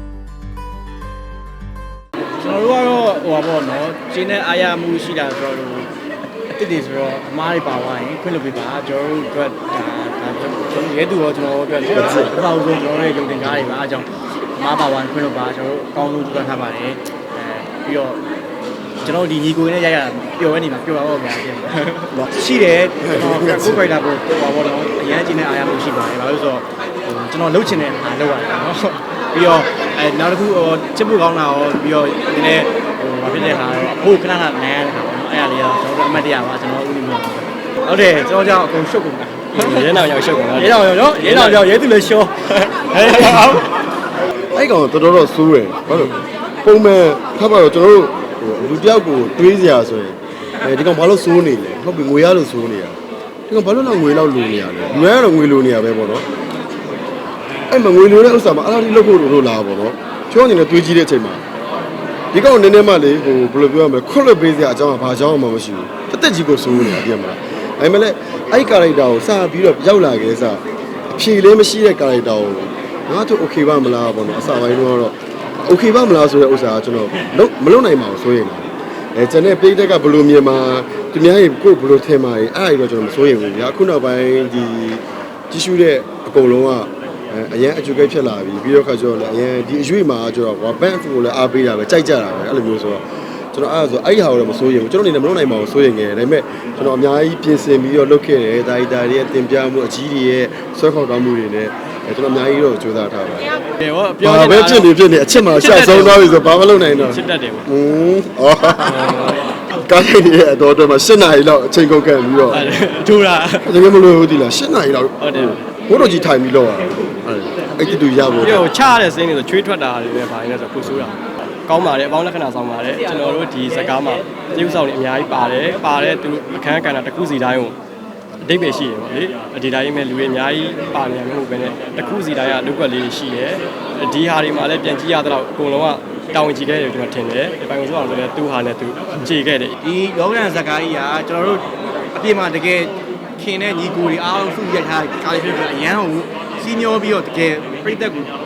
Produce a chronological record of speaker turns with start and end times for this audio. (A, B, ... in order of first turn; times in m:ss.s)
0:02.4-0:05.9 A
0:06.4-0:18.2 A
0:11.9-0:12.3 B
0:19.0-0:40.0 A
0:23.0-0:23.8 B
0:39.5-0:41.8 C
0:40.5-0:43.6 A
0:42.7-0:43.7 C
0:44.5-0:53.0 B
0:53.5-0:56.2 B
0:57.7-1:01.4 B
1:02.3-1:43.5 B
1:43.8-1:47.6 C
1:44.2-1:52.7 B
1:48.8-1:49.4 C
1:52.5-1:53.7 C
1:53.6-1:58.6 B
1:55.2-1:55.6 C
1:58.2-2:07.8 C
2:08.4-2:19.8 C
2:19.8-2:28.3 A